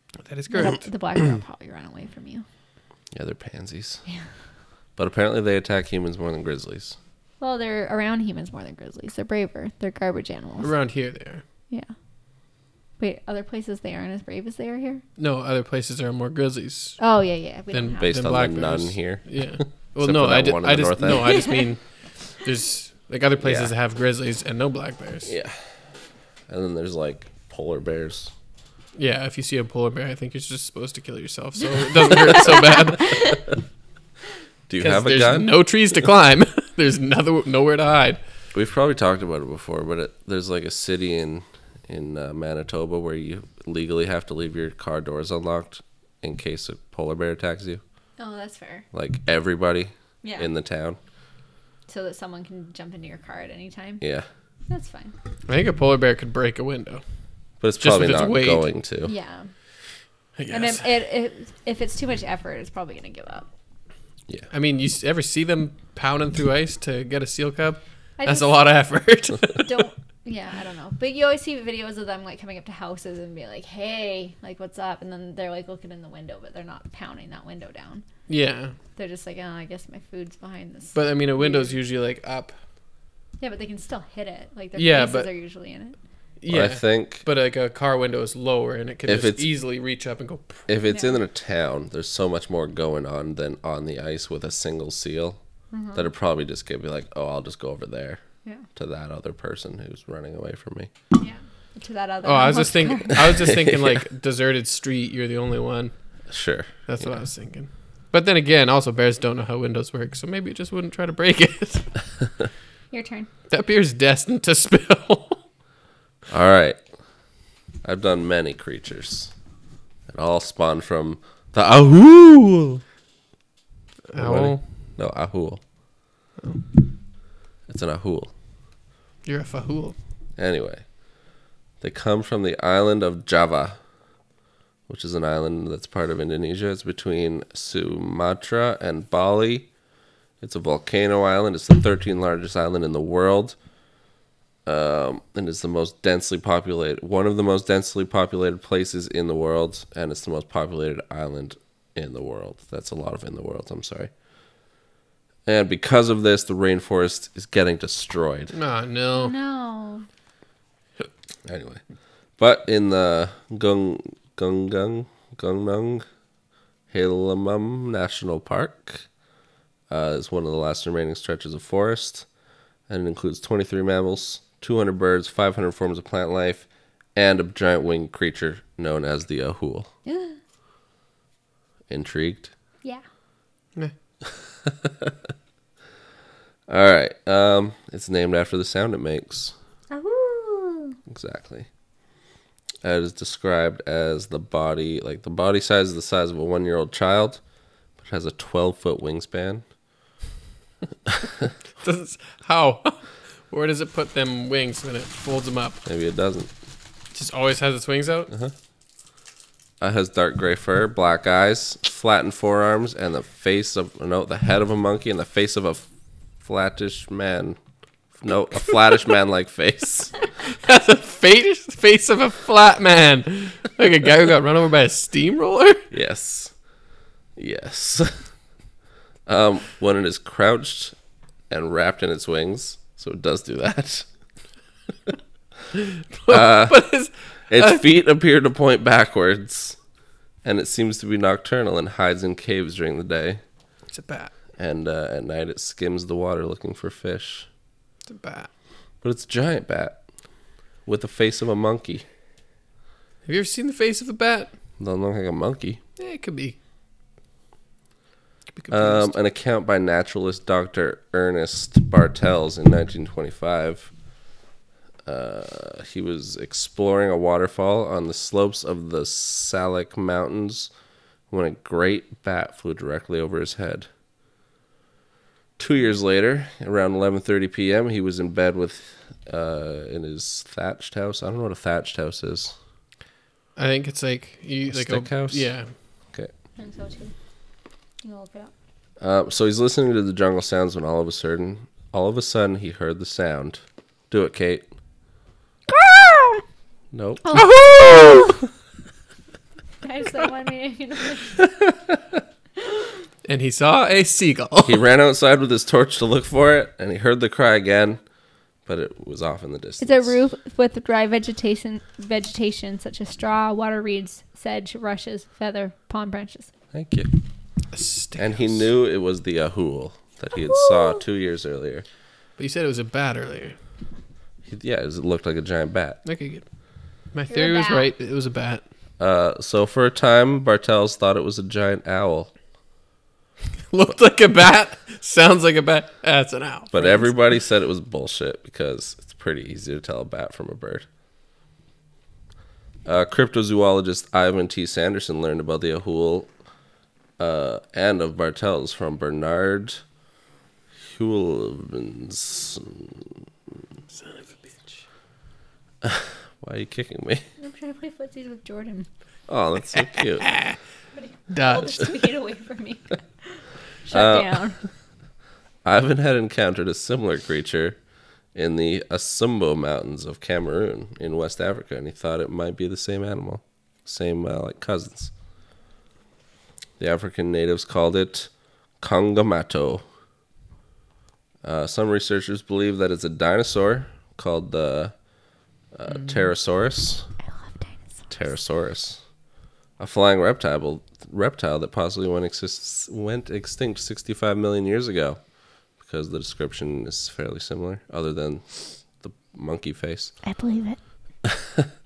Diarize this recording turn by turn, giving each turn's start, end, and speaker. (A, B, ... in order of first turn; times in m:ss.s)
0:00.2-0:00.8 A
0:00.5-0:02.4 B
0:03.1-0:04.0 C
0:05.0-0:07.0 C
0:07.4-0:10.7 B
0:10.6-0:11.4 A
0:13.0-0:15.0 B
0:15.2-0:17.0 A
0:17.0-0:18.3 B
0:17.7-0:21.8 A
0:18.0-0:21.5 C
0:22.3-0:25.3 A
0:23.4-0:23.7 C
0:25.2-0:25.6 C
0:26.5-0:28.3 C
0:29.0-0:33.4 A
0:32.5-0:33.3 B
0:34.7-0:35.5 C
0:34.8-0:38.2 A
0:38.5-0:47.8 C
0:48.2-0:48.8 B
0:48.9-0:51.0 C
0:50.2-0:50.5 B
0:51.9-0:54.0 B
0:54.0-0:54.3 C
0:54.7-0:55.1 B
0:55.5-0:57.0 A
0:57.6-0:59.1 C
0:57.8-0:58.6 A
0:59.0-0:59.5 B
1:00.4-1:00.8 A
1:00.5-1:03.5 B
1:04.5-1:09.7 A
1:08.2-1:08.6 B
1:09.6-1:18.0 B
1:18.3-1:18.7 A
1:19.0-1:21.8 B
1:20.9-1:22.5 A
1:23.4-1:26.0 B
1:24.8-1:25.3 A
1:26.4-1:30.7 A
1:26.5-1:27.2 C
1:29.1-1:29.4 C
1:30.7-1:35.4 C
1:30.9-1:31.1 B
1:35.7-1:36.1 B
1:35.9-1:38.2 C
1:38.8-1:40.9 C
1:41.2-1:43.5 B
1:42.2-1:45.9 A
1:43.3-1:44.0 C
1:46.3-1:47.2 C
1:46.9-1:51.9 A
1:52.9-1:53.3 B
1:53.5-1:55.4 A
1:56.3-1:56.8 C
1:57.8-1:59.3 C
2:00.1-2:02.8 C
2:04.1-2:04.6 A
2:04.1-2:05.6 C
2:07.7-2:08.3 C
2:09.2-2:10.0 A
2:10.4-2:10.8 C
2:11.8-2:13.8 C
2:14.9-2:19.7 C
2:20.4-2:23.5 C
2:24.6-2:34.1 C
2:35.4-2:38.5 C
2:38.5-2:39.3 A
2:39.1-2:40.1 B
2:41.4-2:41.8 C
2:42.4-2:46.0 C
2:46.9-2:49.0 C
2:49.9-2:52.2 C
2:52.9-2:59.9 C
3:00.0-3:00.4 B
3:01.9-3:02.5 C
3:04.6-3:05.1 C
3:06.7-3:09.5 C
3:09.9-3:11.0 B
3:11.1-3:11.7 C
3:12.8-3:17.4 C
3:18.0-3:19.6 C
3:21.8-3:25.8 A
3:25.8-3:26.5 C
3:27.1-3:28.3 A
3:29.8-3:35.8 C
3:36.4-3:37.6 C
3:38.1-3:40.1 C
3:40.5-3:45.8 A
3:45.9-3:46.5 C
3:47.4-3:48.2 C
3:49.3-3:50.9 C
3:51.5-3:54.0 C
3:55.8-3:57.8 A
3:56.3-3:56.8 C
3:57.5-3:59.8 C
4:00.4-4:03.4 C
4:03.9-4:04.3 A
4:04.6-4:07.5 C
4:08.1-4:08.5 A
4:09.0-4:10.0 C
4:10.8-4:12.0 C
4:13.2-4:14.5 A
4:14.8-4:15.8 C
4:16.0-4:16.6 A
4:18.5-4:19.1 A
4:18.7-4:23.9 C
4:25.0-4:30.7 C
4:31.3-4:33.9 C
4:35.6-4:42.5 C
4:43.6-4:45.7 A
4:44.7-4:45.4 C
4:46.6-4:47.1 B
4:48.0-4:48.5 B
4:49.0-4:54.6 C
4:55.7-4:56.4 B
4:56.9-4:57.2 C
4:57.2-4:58.3 B
4:57.3-4:58.3 A
4:59.8-5:01.4 B
5:03.2-5:04.8 A
5:04.6-5:08.0 C
5:08.6-5:10.1 C
5:09.8-5:16.5 B
5:16.7-5:17.1 C
5:17.7-5:18.6 A
5:18.2-5:21.8 C
5:20.4-5:21.0 B
5:22.4-5:23.5 A
5:24.5-5:26.0 C
5:26.0-5:26.4 A
5:27.1-5:28.6 A
5:27.3-5:27.9 B
5:29.0-5:32.3 C
5:33.7-5:37.1 A
5:36.7-5:40.8 C
5:42.8-5:46.3 C
5:47.2-5:49.8 C
5:50.9-5:53.2 C
5:53.9-5:54.7 A
5:55.8-5:57.2 C
5:57.4-5:58.9 B
5:59.3-6:00.3 C
5:59.8-6:00.6 A
6:00.9-6:04.6 B
6:01.3-6:01.9 A
6:03.9-6:04.4 C
6:05.6-6:07.8 C
6:08.3-6:15.1 C
6:16.8-6:18.3 C
6:18.8-6:19.8 C
6:21.4-6:24.9 C
6:25.7-6:27.1 C
6:27.5-6:28.0 B
6:28.1-6:29.0 C
6:29.8-6:35.2 C
6:35.8-6:40.1 C
6:40.2-6:40.8 B
6:41.2-6:41.7 C